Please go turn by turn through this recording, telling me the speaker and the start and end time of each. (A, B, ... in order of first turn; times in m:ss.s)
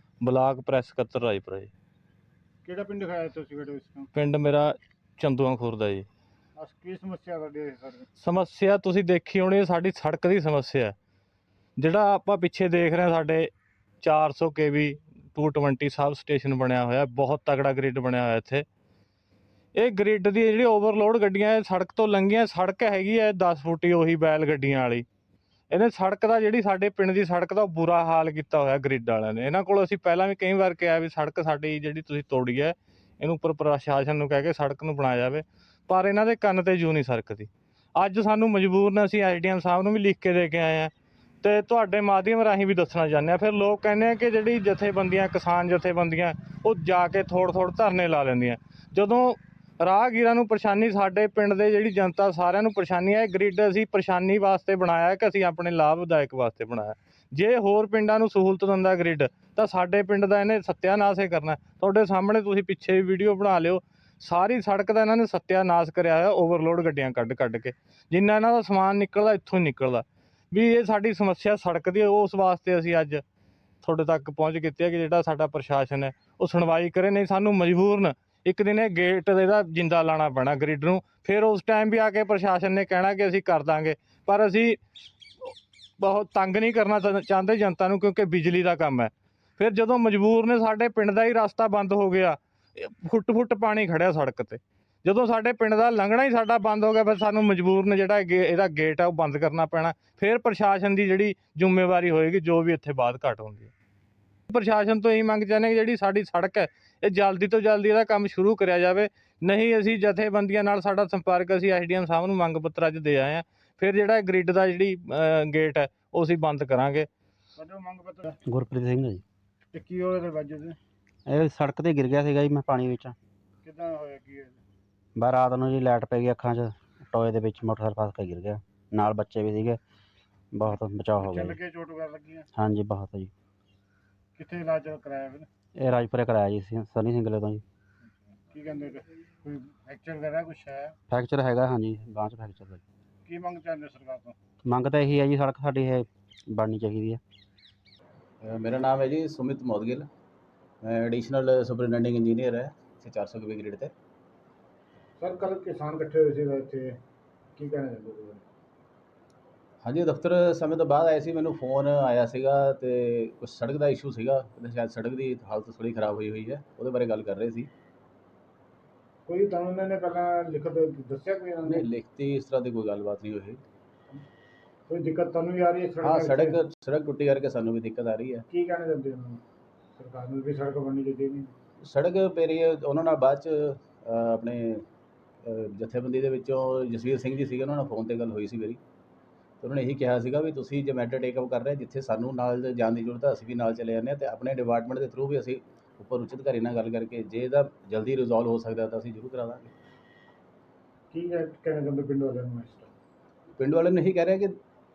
0:00.2-0:01.7 A
0:02.6-0:04.1 B
0:04.1-0:06.1 A
0:06.6-0:08.1 B
0:08.2-0:10.9 A
0:11.8-0:18.6 A
0:19.7-0:25.0 A
0:25.7-0:40.9 A
0:41.4-1:13.2 A
1:13.8-1:24.8 A
1:25.4-1:43.7 A
1:44.5-1:57.1 A
1:57.6-1:58.4 B
1:58.5-1:59.2 C
1:59.7-2:00.8 B
2:01.3-2:03.2 C
2:03.6-2:04.6 B
2:05.2-2:09.8 C
2:10.5-2:11.6 C
2:11.2-2:12.5 B
2:12.6-2:13.3 C
2:14.4-2:15.5 B
2:15.8-2:17.6 C
2:18.5-2:21.0 B
2:21.1-2:22.8 C
2:23.2-2:24.4 B
2:24.7-2:27.2 C
2:28.4-2:30.1 D
2:30.8-2:33.9 D
2:35.2-2:37.0 B
2:37.6-2:38.4 B
2:39.8-2:47.7 D
2:49.3-2:51.8 B
2:51.7-2:53.6 D
2:54.9-2:56.6 B
2:56.0-2:58.4 D
2:58.5-2:59.4 B
3:00.0-3:01.5 B
3:01.8-3:04.8 D
3:05.4-3:08.8 D
3:09.6-3:19.7 D
3:21.1-3:22.9 B
3:23.6-3:24.6 D